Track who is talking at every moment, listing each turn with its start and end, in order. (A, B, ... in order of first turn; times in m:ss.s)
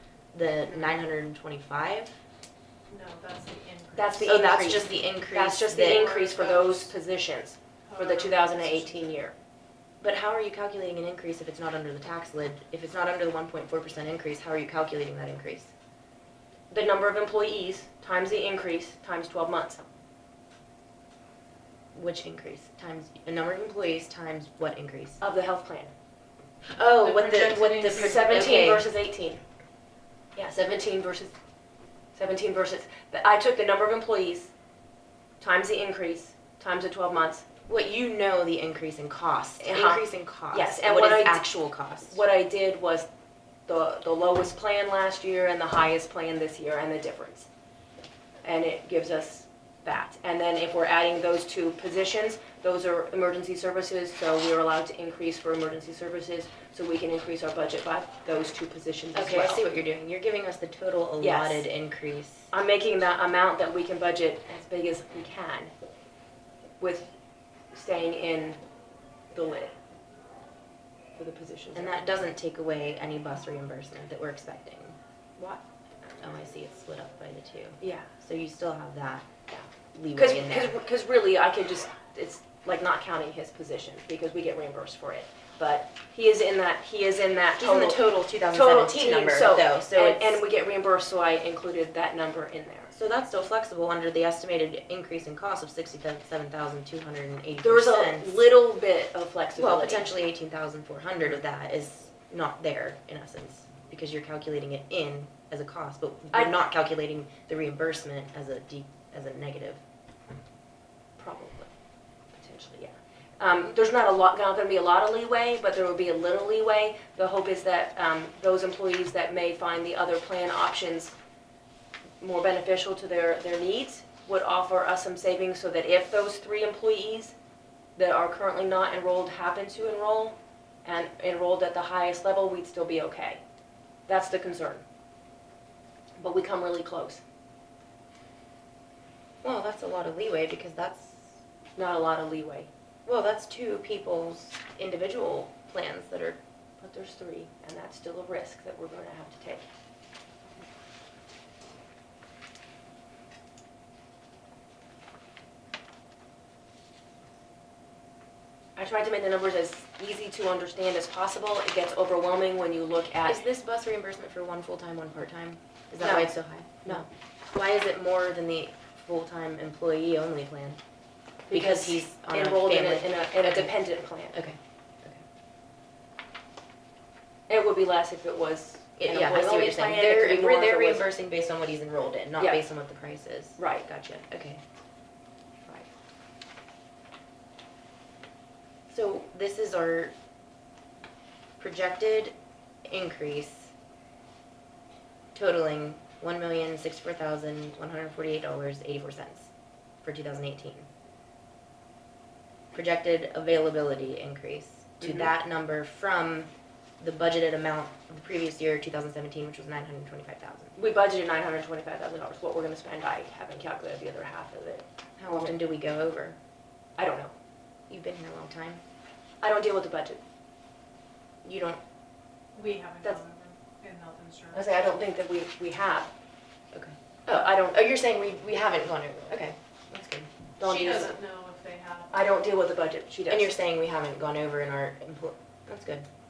0:00.3-0:02.2 A
0:02.9-0:04.8 B
0:03.9-0:09.3 C
0:04.2-0:06.1 A
0:05.7-0:06.9 B
0:07.8-0:09.2 B
0:10.0-0:15.7 A
0:16.7-0:19.9 C
0:21.9-0:25.2 A
0:25.2-0:25.9 C
0:26.7-0:28.9 A
0:27.0-0:28.5 B
0:27.7-0:29.4 C
0:30.3-0:31.3 C
0:32.1-0:34.5 C
0:35.4-0:37.4 C
0:37.7-0:42.2 A
0:39.6-0:43.1 C
0:43.7-0:47.5 C
0:48.4-0:59.6 C
0:59.1-1:02.5 A
1:01.2-1:01.6 C
1:02.5-1:05.7 C
1:06.8-1:07.1 C
1:07.7-1:08.6 C
1:09.3-1:09.7 C
1:11.2-1:12.1 C
1:11.7-1:15.6 A
1:16.2-1:19.3 A
1:17.8-1:18.1 C
1:19.5-1:32.9 C
1:19.9-1:20.8 A
1:27.6-1:30.4 A
1:32.9-1:38.4 A
1:37.6-1:40.1 C
1:39.6-1:49.8 A
1:51.2-1:51.7 C
1:52.3-2:01.1 C
2:02.2-2:07.3 C
2:08.0-2:13.4 C
2:14.1-2:14.8 C
2:16.2-2:17.2 C
2:19.4-2:21.3 A
2:21.8-2:22.7 C
2:23.0-2:26.4 A
2:26.8-2:29.6 C
2:38.8-2:43.4 C
2:43.2-2:50.8 A
2:46.0-2:47.0 C
2:51.5-2:54.4 C
2:51.5-2:53.8 A
2:54.3-2:55.2 A
2:57.5-3:01.1 C
2:59.0-3:04.6 A
3:03.6-3:03.9 C
3:08.9-3:10.1 A
3:11.6-3:12.3 A
3:12.9-3:13.7 A
3:15.3-3:19.5 A
3:20.0-3:20.8 A
3:22.7-3:26.5 A
3:25.0-3:25.3 C
3:27.0-3:30.7 A
3:30.8-3:35.5 C
3:35.2-3:36.4 A
3:37.0-3:37.3 C
3:37.9-3:38.8 A
3:39.4-3:40.2 C
3:41.4-3:41.8 A
3:42.5-3:44.7 B
3:44.5-3:46.1 C
3:46.7-3:50.3 A
3:47.3-3:47.8 C
3:50.6-3:51.2 C
3:50.6-3:52.3 B
3:52.1-3:53.5 C
3:53.3-3:56.0 A